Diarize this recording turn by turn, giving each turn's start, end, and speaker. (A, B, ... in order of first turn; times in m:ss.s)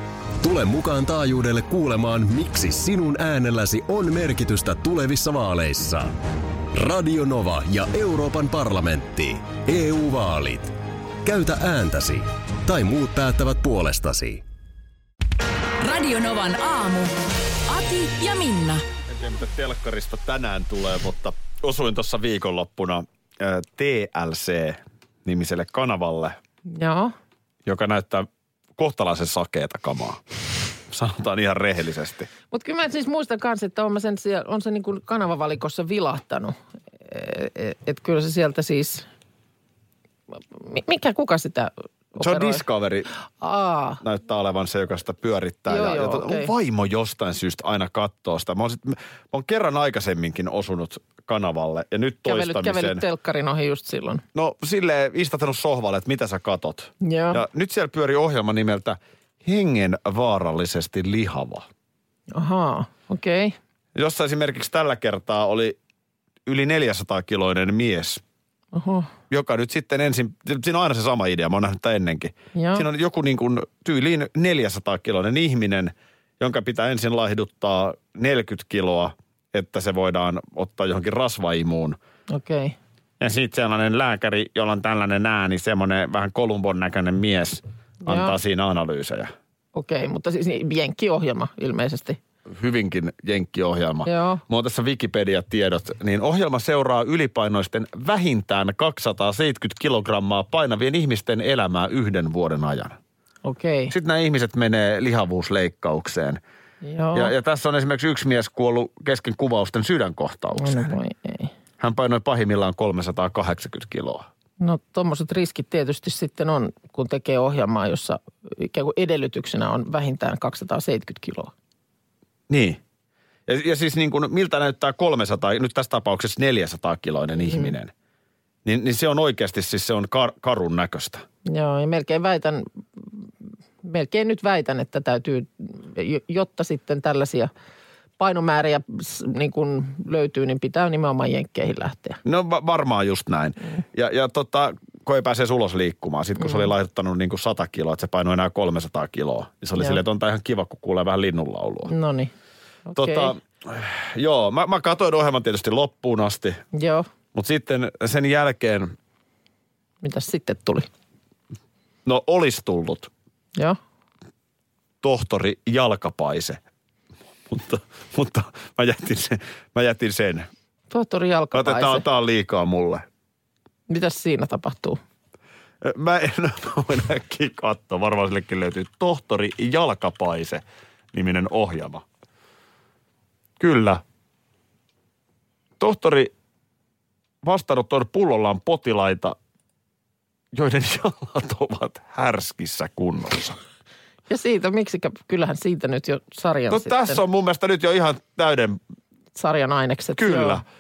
0:00.4-0:06.1 A
0:06.7-0:14.4 A
0:15.8-0:17.2 B
0:17.7-0:18.8 B
0:19.1-0:26.4 C
0:26.7-0:27.1 D
0:27.6-0:30.2 C
0:30.9-0:32.3 C
0:32.5-0:39.1 D
0:40.3-0:42.6 D
0:42.2-0:43.1 C
0:43.4-0:44.0 D
0:44.0-0:53.0 C
0:45.7-0:46.5 D
0:52.3-0:54.2 D
0:54.4-1:01.7 C
0:57.0-0:57.4 D
1:02.3-1:03.6 D
1:04.0-1:05.8 C
1:06.5-1:08.2 C
1:08.7-1:09.1 D
1:09.3-1:22.0 C
1:12.6-1:12.8 D
1:22.3-1:22.8 D
1:23.2-1:29.3 C
1:28.0-1:28.4 D
1:29.8-1:32.2 D
1:32.5-1:43.0 C
1:34.0-1:34.4 D
1:43.4-1:43.9 D
1:43.9-1:46.4 C
1:46.8-1:47.3 D
1:47.1-1:50.9 C
1:50.6-1:51.5 D
1:51.8-1:54.3 C
1:54.6-2:01.5 D
2:02.5-2:02.8 C
2:03.5-2:07.9 C
2:08.6-2:11.2 C
2:11.5-2:13.2 D
2:13.8-2:17.5 D
2:18.2-2:22.2 D
2:22.2-2:31.9 C
2:31.9-2:32.3 D
2:32.9-2:33.3 D
2:33.0-2:36.6 C
2:36.7-2:37.1 D
2:37.3-2:39.0 C
2:40.0-2:40.9 D
2:42.1-2:43.1 C
2:45.0-2:46.6 C
2:47.5-2:50.5 C
2:50.9-2:52.0 D
2:51.5-2:53.0 C
2:53.9-2:55.0 D
2:55.8-3:02.0 C
3:03.6-3:04.0 C
3:05.8-3:06.3 C
3:07.4-3:09.4 C
3:10.5-3:13.6 C
3:14.3-3:17.2 D
3:16.7-3:18.8 C
3:19.4-3:20.6 D
3:20.2-3:20.6 C